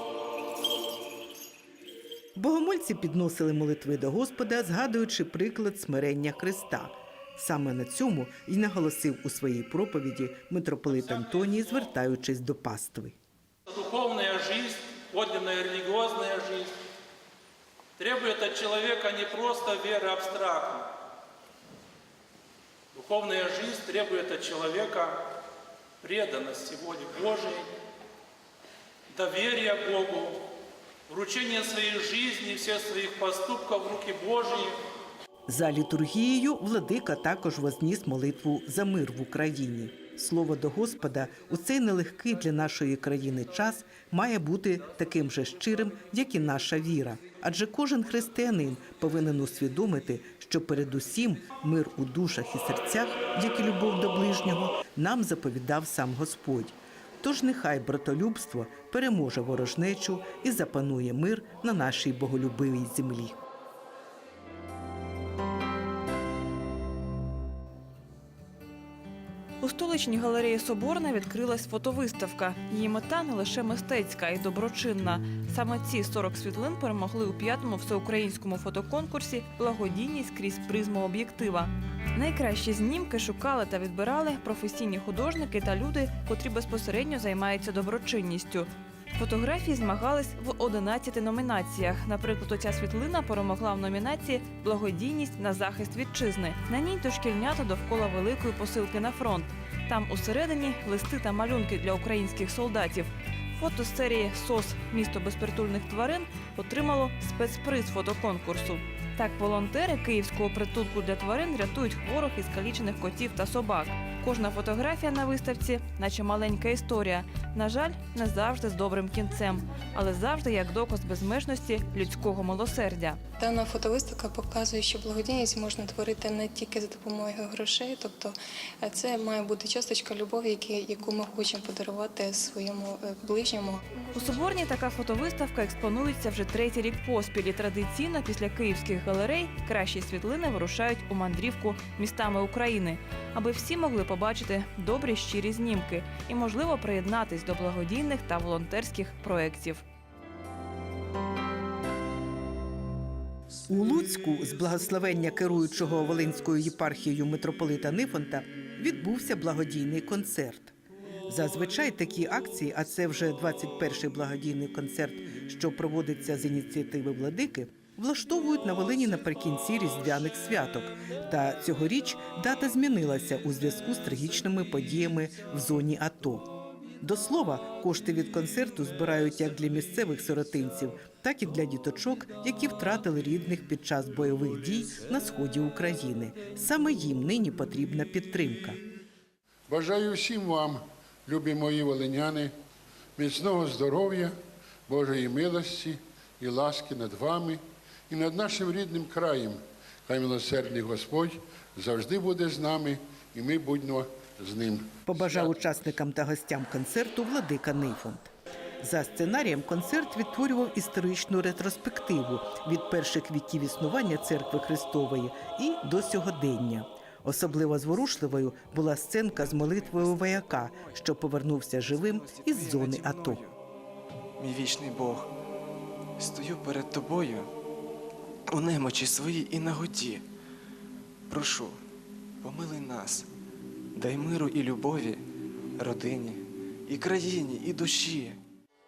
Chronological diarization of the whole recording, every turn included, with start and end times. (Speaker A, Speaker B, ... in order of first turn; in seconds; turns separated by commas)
Speaker A: 2.4-13.2, Speaker B: 13.7-16.7, Speaker B: 18.0-20.9, Speaker B: 22.9-25.3, Speaker B: 26.0-27.7, Speaker B: 29.1-30.4, Speaker B: 31.1-34.8, Speaker A: 35.5-63.4, Speaker C: 69.6-123.2, Speaker D: 123.4-134.1, Speaker C: 134.1-149.8, Speaker A: 153.7-160.7, Speaker A: 161.3-188.8, Speaker E: 189.7-192.5, Speaker E: 193.2-194.3, Speaker E: 194.9-205.4, Speaker A: 205.1-223.4, Speaker F: 219.4-221.0, Speaker F: 221.9-223.6, Speaker F: 224.4-225.3, Speaker F: 226.2-227.5, Speaker F: 228.5-230.2, Speaker F: 231.3-231.8, Speaker F: 232.4-233.3, Speaker F: 233.9-235.2, Speaker F: 235.8-238.4